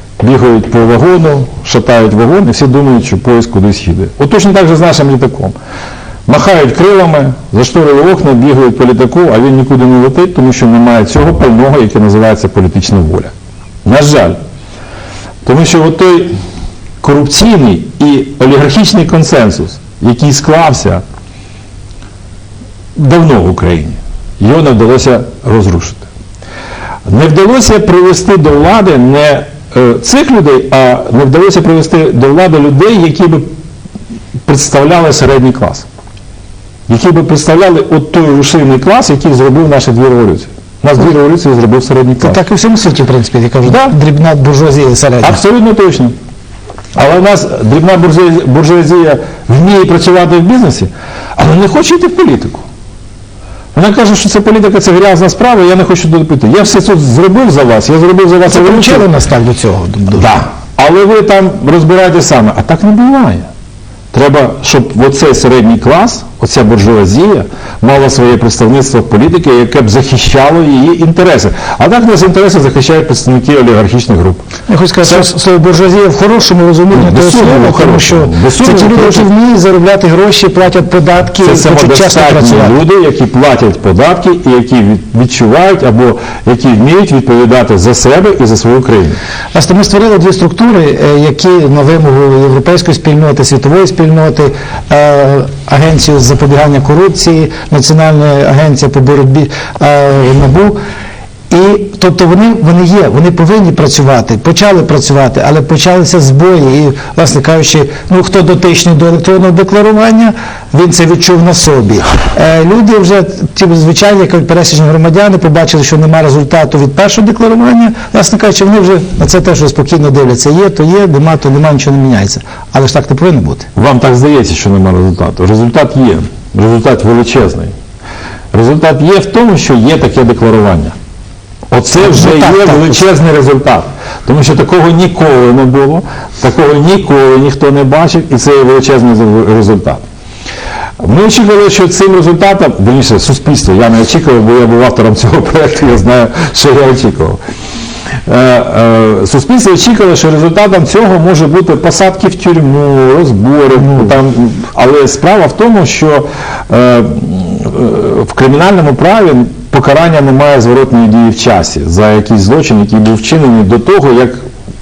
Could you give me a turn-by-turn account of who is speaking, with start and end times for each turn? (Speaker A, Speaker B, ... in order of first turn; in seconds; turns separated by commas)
Speaker A: 0.2-5.6, Speaker A: 6.3-13.3, Speaker A: 13.8-14.4, Speaker A: 15.4-16.3, Speaker A: 17.0-21.0, Speaker A: 23.0-26.1, Speaker A: 27.1-33.5, Speaker A: 34.5-35.9, Speaker A: 36.9-42.4, Speaker B: 42.2-45.4, Speaker A: 43.6-43.9, Speaker A: 45.2-46.1, Speaker A: 47.0-52.6, Speaker A: 53.7-59.1, Speaker B: 58.5-60.3, Speaker A: 60.1-63.5, Speaker A: 64.1-74.4, Speaker B: 74.7-82.8, Speaker A: 76.9-79.3, Speaker A: 81.4-89.2, Speaker B: 89.5-100.8, Speaker B: 101.5-123.7, Speaker A: 123.8-127.7, Speaker A: 128.5-130.9, Speaker A: 131.7-140.0, Speaker B: 132.0-133.0, Speaker A: 141.0-147.4, Speaker A: 148.3-164.4